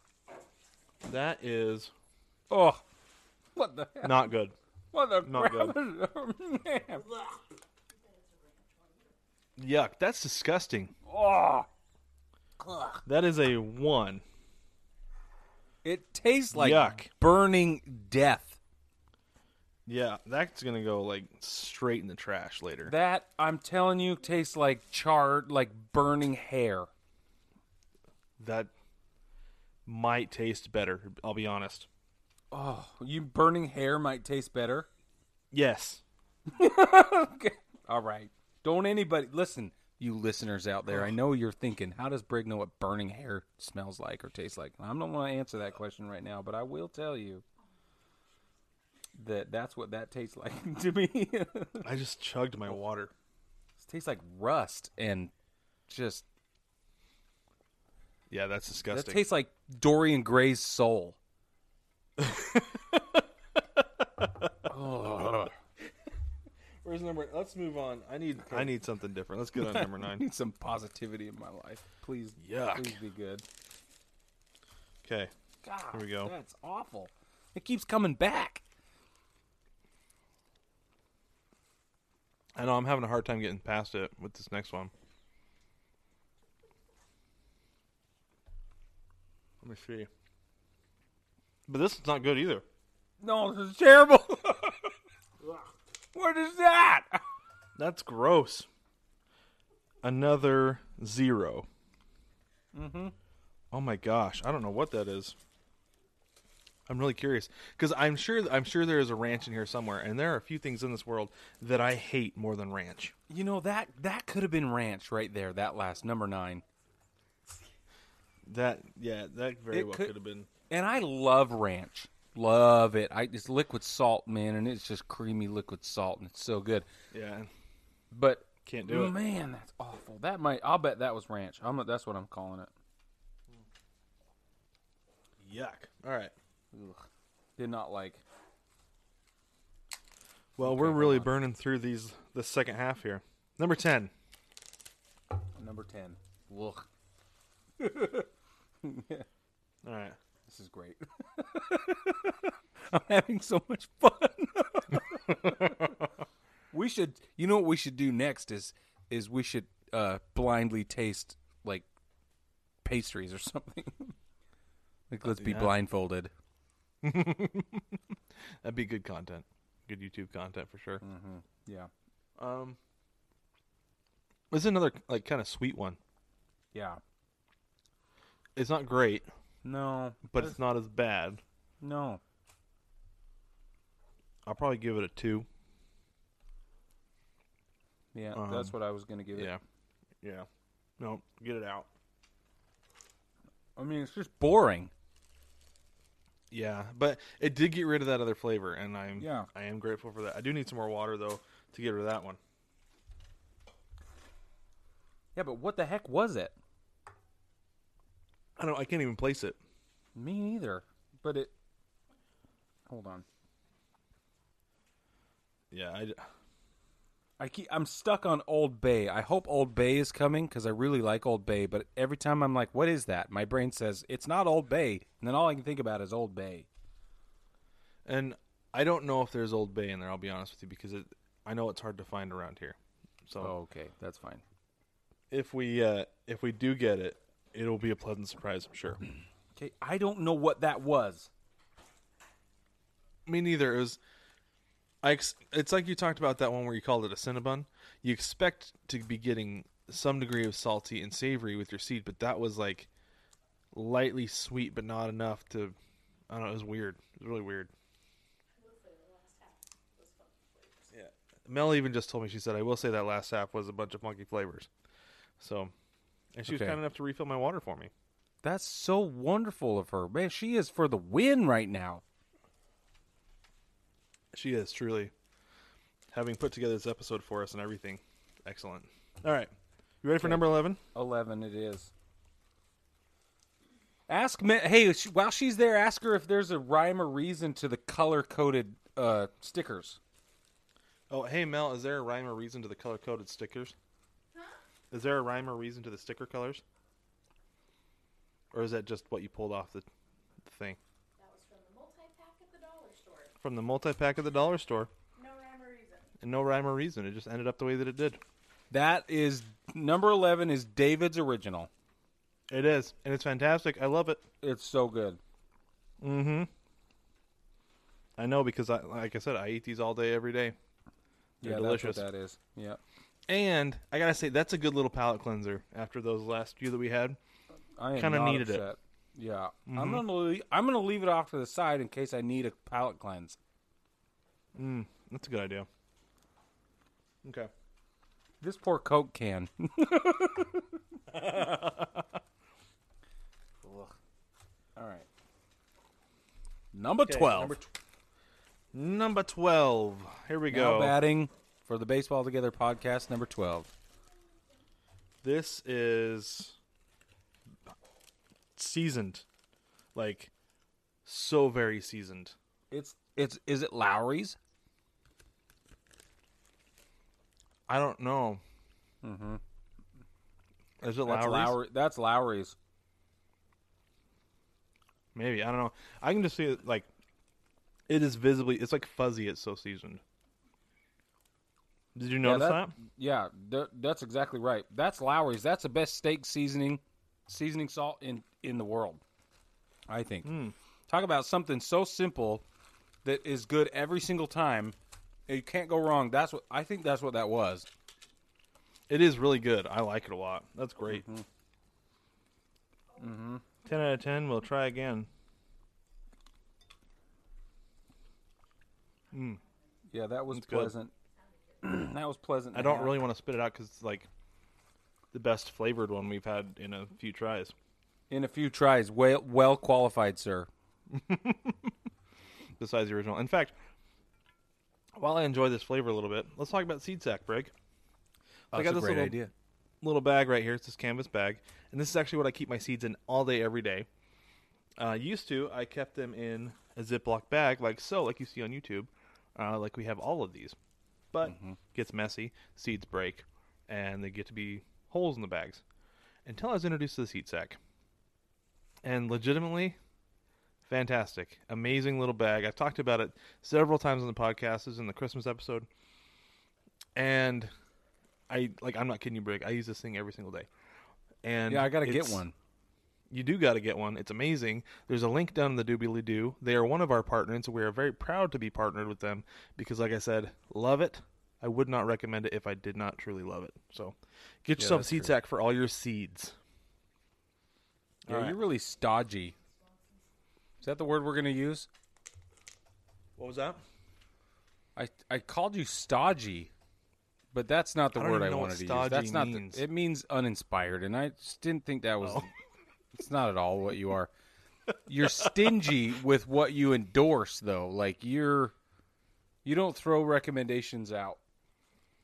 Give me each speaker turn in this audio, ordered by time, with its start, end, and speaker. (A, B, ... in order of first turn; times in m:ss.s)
0:01.0-0:01.9 A
0:02.5-0:02.8 B
0:03.6-0:04.3 B
0:04.0-0:04.6 A
0:04.9-0:07.3 B
0:05.2-0:05.8 A
0:08.0-0:09.1 C
0:09.6-0:10.9 A
0:11.0-0:11.7 B
0:12.6-0:13.0 B
0:13.1-0:14.2 A
0:15.8-0:18.6 B
0:16.5-0:17.1 A
0:19.9-0:22.9 A
0:22.8-0:26.9 B
0:28.4-0:28.7 A
0:29.9-0:31.9 A
0:32.5-0:34.9 B
0:35.5-0:36.0 A
0:36.5-0:47.4 B
0:40.9-0:41.2 A
0:49.2-0:51.9 B
0:51.8-0:53.1 A
0:53.8-0:55.3 B
0:55.9-0:56.3 B
0:58.3-0:59.2 A
0:58.9-1:01.2 B
1:02.2-1:03.2 A
1:03.8-1:04.5 A
1:04.7-1:05.5 B
1:06.8-1:10.3 A
1:09.6-1:13.4 B
1:12.4-1:13.0 A
1:15.0-1:15.3 A
1:15.6-1:18.6 B
1:15.9-1:16.3 A
1:22.6-1:24.9 A
1:29.6-1:30.1 A
1:31.7-1:32.6 A
1:33.2-1:34.9 B
1:36.1-1:37.2 B
1:37.8-1:38.7 A
1:40.0-1:41.7 A
1:42.7-1:43.2 B
1:43.7-1:45.4 A
1:46.9-1:53.1 A
1:53.3-1:56.6 B
1:58.5-2:00.5 A
1:59.7-2:00.1 B
2:00.7-2:06.9 B
2:07.1-2:07.5 A
2:08.1-2:12.7 B
2:08.7-2:09.2 A
2:15.4-2:16.3 A
2:16.7-2:17.1 B
2:17.6-2:18.2 B
2:20.6-2:24.1 A
2:20.6-2:21.3 B
2:25.6-2:26.9 B
2:27.8-2:28.3 B
2:28.8-2:29.3 B
2:29.8-2:30.2 A
2:30.5-2:36.0 B
2:35.3-2:35.7 A
2:36.7-2:41.9 B
2:42.8-2:44.2 B
2:45.1-2:46.3 B
2:45.3-2:45.7 A
2:47.0-2:48.0 A
2:48.6-2:51.0 A
2:51.0-2:51.9 B
2:52.4-2:52.8 A
2:54.5-2:56.0 A
2:56.7-2:57.0 B
2:58.6-2:59.3 A
2:59.6-3:00.6 B
3:00.3-3:01.4 A
3:01.8-3:02.2 B
3:04.5-3:05.5 A
3:08.1-3:09.6 B
3:08.3-3:08.7 A
3:09.4-3:09.6 A
3:10.2-3:10.5 A
3:11.0-3:11.9 A
3:13.8-3:14.9 B
3:16.5-3:22.4 A
3:19.2-3:19.5 B
3:25.4-3:26.6 B
3:28.6-3:29.6 A
3:30.2-3:31.5 B
3:32.9-3:33.2 B
3:35.7-3:36.2 A
3:37.4-3:46.7 B
3:48.1-3:53.5 A
3:53.4-3:54.4 B
3:55.3-3:59.0 A
3:59.6-4:01.3 B
4:03.3-4:04.0 A
4:05.0-4:12.9 A
4:13.7-4:15.8 A
4:16.3-4:17.7 A
4:18.6-4:20.9 C
4:20.9-4:24.7 A
4:25.4-4:25.7 A
4:26.4-4:27.9 A
4:26.5-4:26.8 B
4:28.4-4:32.0 B
4:34.3-4:35.1 A
4:36.1-4:40.8 A
4:40.2-4:41.9 B
4:44.1-4:50.0 B
4:51.1-4:53.8 A
4:54.9-4:56.6 A
4:58.5-4:59.9 A
5:00.4-5:00.8 A
5:01.2-5:03.3 C
5:03.4-5:04.9 A
5:05.2-5:06.1 C
5:06.2-5:08.2 A
5:08.7-5:11.7 B
5:12.5-5:14.2 A
5:14.4-5:15.2 B
5:16.0-5:16.5 A
5:18.2-5:20.6 A
5:21.4-5:22.0 A
5:21.4-5:22.8 B
5:23.3-5:27.2 A
5:27.8-5:33.4 B
5:28.0-5:28.7 A
5:29.7-5:30.0 A
5:34.6-5:35.7 A
5:37.2-5:37.5 A
5:38.4-5:40.8 B
5:41.1-5:42.1 A
5:43.6-5:44.0 B
5:44.8-5:45.1 B
5:46.7-5:47.7 B
5:47.1-5:47.6 A
5:48.7-5:51.0 A
5:50.5-5:53.7 B
5:55.2-5:56.6 A
5:58.6-5:59.2 A
6:00.0-6:00.3 A
6:01.0-6:02.4 A
6:02.7-6:04.4 B
6:07.7-6:08.4 A
6:09.0-6:09.4 B
6:10.8-6:11.6 A
6:11.0-6:12.6 B
6:15.1-6:16.9 A
6:17.9-6:20.0 A
6:22.0-6:22.8 A
6:22.2-6:29.0 B
6:29.9-6:30.3 B
6:30.2-6:30.6 A
6:30.9-6:32.4 B
6:33.0-6:34.8 B
6:35.3-6:37.7 B
6:38.9-6:41.0 A
6:40.9-6:41.3 B
6:43.0-6:43.4 B
6:43.6-6:45.1 A
6:49.1-6:49.4 A
6:49.9-6:50.9 B
6:50.3-6:50.7 A
6:51.6-6:53.0 B
6:52.5-6:54.1 A
6:55.1-6:57.5 A
6:58.1-7:00.5 B
7:00.9-7:01.7 A
7:02.6-7:03.6 A
7:05.0-7:07.5 A
7:08.5-7:09.2 A
7:08.5-7:09.3 B
7:09.8-7:13.9 A
7:14.8-7:20.6 A
7:21.1-7:25.6 A
7:21.2-7:21.6 B
7:26.2-7:27.6 A
7:28.8-7:29.8 A
7:30.7-7:35.7 A
7:37.0-7:37.5 A
7:38.3-7:40.5 A
7:41.2-7:42.2 A
7:41.5-7:42.4 B
7:43.1-7:56.4 A
7:54.6-7:55.1 B
7:58.1-7:58.4 A
7:58.1-7:59.4 B
8:00.6-8:01.7 B
8:03.2-8:03.6 A
8:04.8-8:06.5 B
8:07.3-8:12.3 B
8:08.0-8:09.7 A
8:12.0-8:12.3 A
8:12.9-8:14.1 B
8:14.9-8:18.5 B
8:19.4-8:21.2 B